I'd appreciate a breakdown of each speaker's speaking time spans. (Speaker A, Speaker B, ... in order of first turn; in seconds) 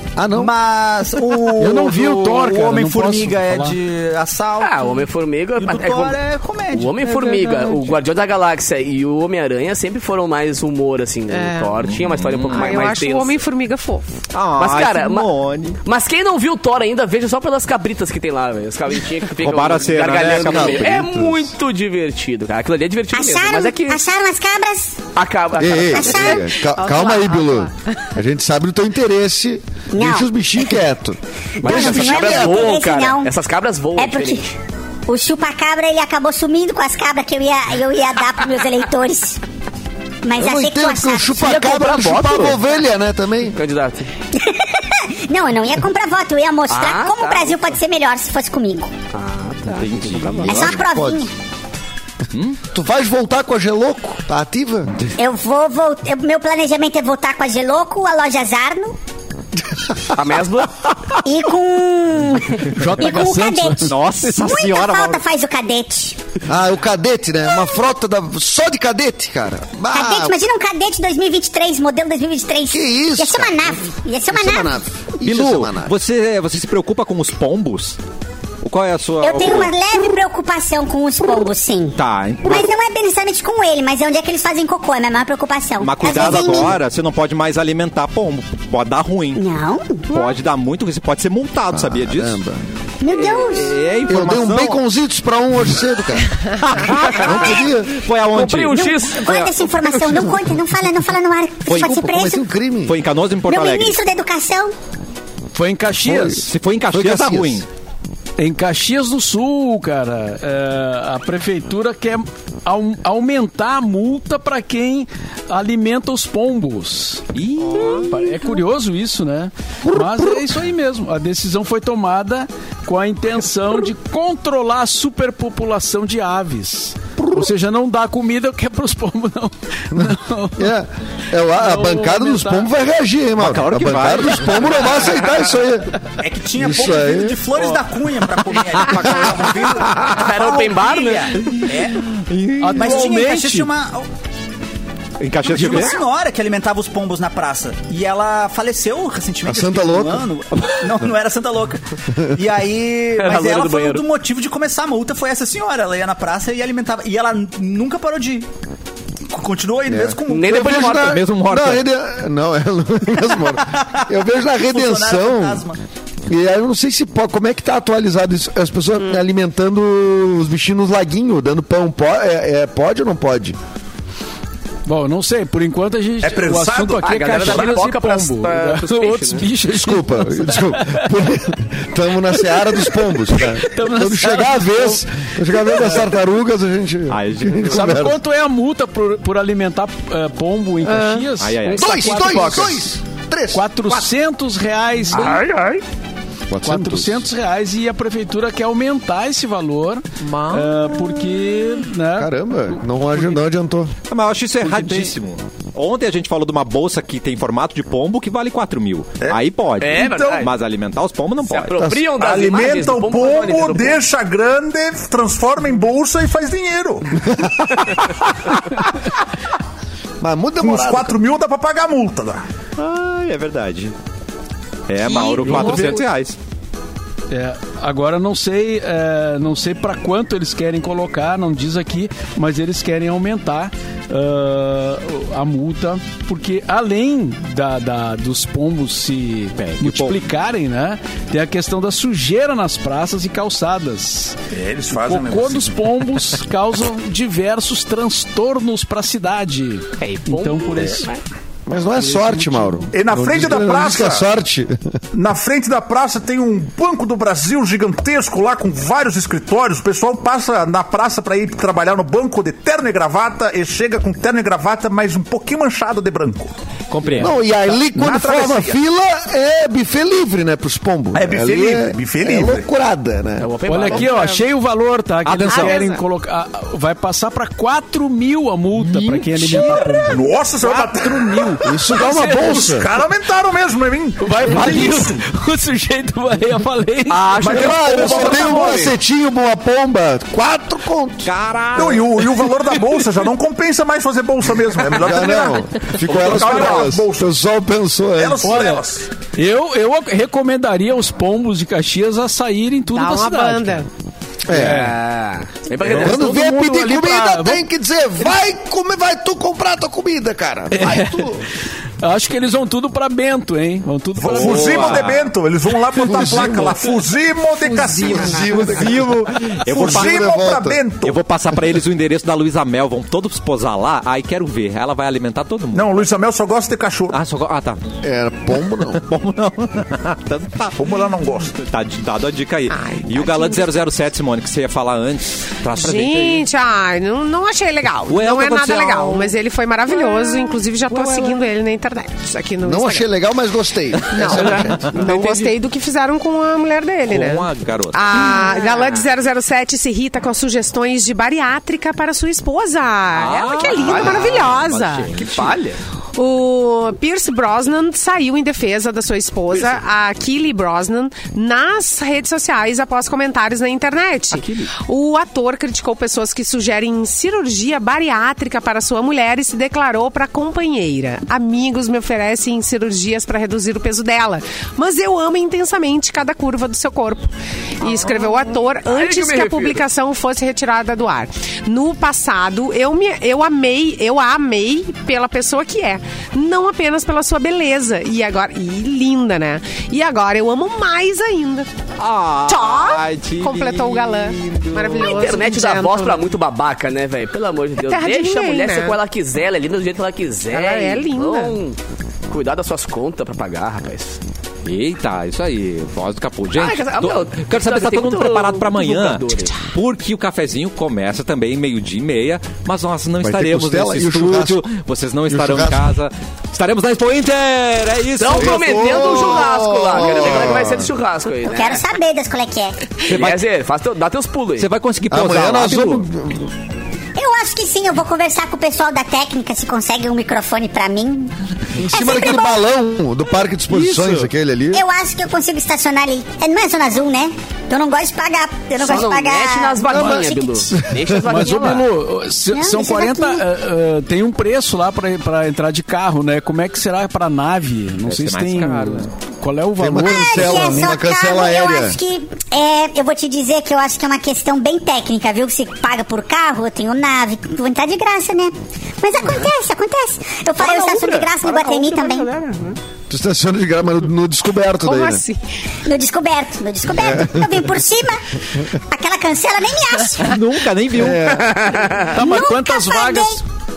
Speaker A: 0.2-0.5, 20.2-21.5, 25.6-32.8, 40.4-43.6, 50.4-51.3, 52.7-54.9, 66.5-70.4, 72.7-76.0, 91.7-92.6, 94.1-96.4, 97.1-98.0, 101.7-103.0, 106.0-107.7, 129.9-135.9, 136.6-137.5, 149.5-150.3, 159.9-165.7, 166.3-173.6, 179.7-188.2, 191.8-193.7, 196.5-197.3, 202.2-203.9, 211.8-212.0, 220.2-221.2, 251.7-254.8, 267.2-273.5, 281.6-282.9, 287.4-291.3, 294.9-298.5, 304.5-304.9, 305.9-311.4, 316.0-316.8, 317.9-320.8, 328.0-329.1, 342.6-344.9, 413.2-414.6, 415.3-415.8, 418.4-420.9, 425.1-426.5, 431.8-434.8, 439.9-441.2, 449.8-452.0, 463.1-465.2, 467.0-467.8, 471.0-471.6
Speaker B: 0.3-4.9, 5.6-7.0, 136.2-142.1, 142.8-144.1, 145.4-158.5, 159.3-160.9, 163.6-165.8
Speaker C: 1.6-3.8, 62.7-64.0, 105.5-106.5, 108.4-117.3, 117.8-130.7, 131.4-132.7, 142.6-143.7, 174.9-181.2, 182.4-186.2, 187.7-192.8, 193.5-195.5, 196.6-202.3, 204.6-205.2, 225.2-226.0, 227.3-244.4, 244.9-251.1, 251.9-253.7, 267.0-267.3, 273.6-282.9, 284.2-288.9, 292.5-293.2, 296.2-296.5, 298.4-303.8, 304.5-305.0, 305.8-307.6, 310.7-311.3, 312.0-315.1, 316.1-316.4, 441.2-450.9, 472.1-473.4
Speaker D: 4.6-6.2, 6.7-13.4, 14.6-15.3, 15.8-24.0, 25.1-26.4, 31.6-34.5, 41.4-42.6, 43.5-44.1, 46.7-47.8, 49.1-50.7, 60.1-60.9, 97.1-97.4, 98.3-100.3, 139.8-141.4, 153.2-154.0, 160.3-161.2, 177.0-179.5, 209.8-210.5, 211.4-214.0, 250.0-251.2, 273.4-274.4, 304.5-306.7, 344.7-345.5, 348.3-349.0, 353.3-354.4, 355.1-355.8, 377.8-379.8, 395.0-404.2, 406.6-409.6, 418.2-421.9, 423.1-424.7, 438.8-441.9, 460.6-462.8, 471.3-472.2
Speaker E: 7.1-7.9, 11.3-11.8, 12.5-14.1, 26.5-27.8, 190.9-191.3, 225.2-225.8, 273.9-274.4, 275.5-276.0, 302.9-303.9, 332.7-333.6, 335.8-343.1, 344.1-355.1, 356.1-377.3, 377.8-391.7, 392.5-396.3, 397.8-399.0, 400.5-401.6, 464.8-465.4
Speaker F: 11.8-12.8, 14.3-15.8, 19.4-21.1, 49.7-50.6, 63.9-65.2, 75.2-78.0, 78.6-79.7, 82.0-82.7, 85.8-89.4, 90.1-92.4, 93.1-94.8, 96.6-98.8, 101.7-102.1, 102.9-104.0, 106.4-107.7, 117.3-118.2, 133.4-135.0, 138.8-139.4, 141.4-143.1, 145.2-146.0, 161.0-161.8, 187.1-188.1, 191.4-192.4, 195.1-195.8, 200.2-201.0, 204.1-211.8, 222.8-223.9, 224.9-226.4, 239.6-240.3, 266.9-267.4, 275.2-275.8, 278.8-280.1, 291.2-292.2, 314.3-315.3, 318.6-320.3, 321.0-326.1, 327.1-327.8, 328.9-330.8, 331.6-336.5, 338.1-339.3, 344.2-345.3, 347.1-348.5, 353.1-355.6, 364.3-364.7, 392.0-395.1, 404.6-419.2, 423.1-423.4, 424.6-426.1, 433.7-434.3, 448.1-449.1, 470.2-472.0
Speaker G: 23.1-25.0, 25.9-26.5, 29.9-30.8, 31.6-33.3, 34.0-34.5, 35.1-39.4, 40.2-41.4, 44.3-48.9, 50.5-51.3, 55.2-59.0, 61.2-66.2, 69.9-74.8, 79.2-86.8, 89.4-90.3, 93.0-93.8, 97.3-97.6, 98.7-102.5, 103.5-104.7, 421.4-422.9, 427.2-431.3, 431.9-432.6, 434.7-440.6, 442.5-443.4, 450.0-462.3, 465.9-470.4, 472.1-473.4
Speaker H: 176.2-177.8, 210.0-210.4, 212.2-217.3, 220.6-222.4, 244.5-245.8, 252.9-254.3, 255.1-266.5, 267.8-268.8, 271.1-272.7, 280.1-281.6, 282.5-285.2, 287.4-288.9, 291.8-297.3, 298.1-299.1, 314.2-318.9, 319.6-321.2, 325.7-327.2, 330.8-331.6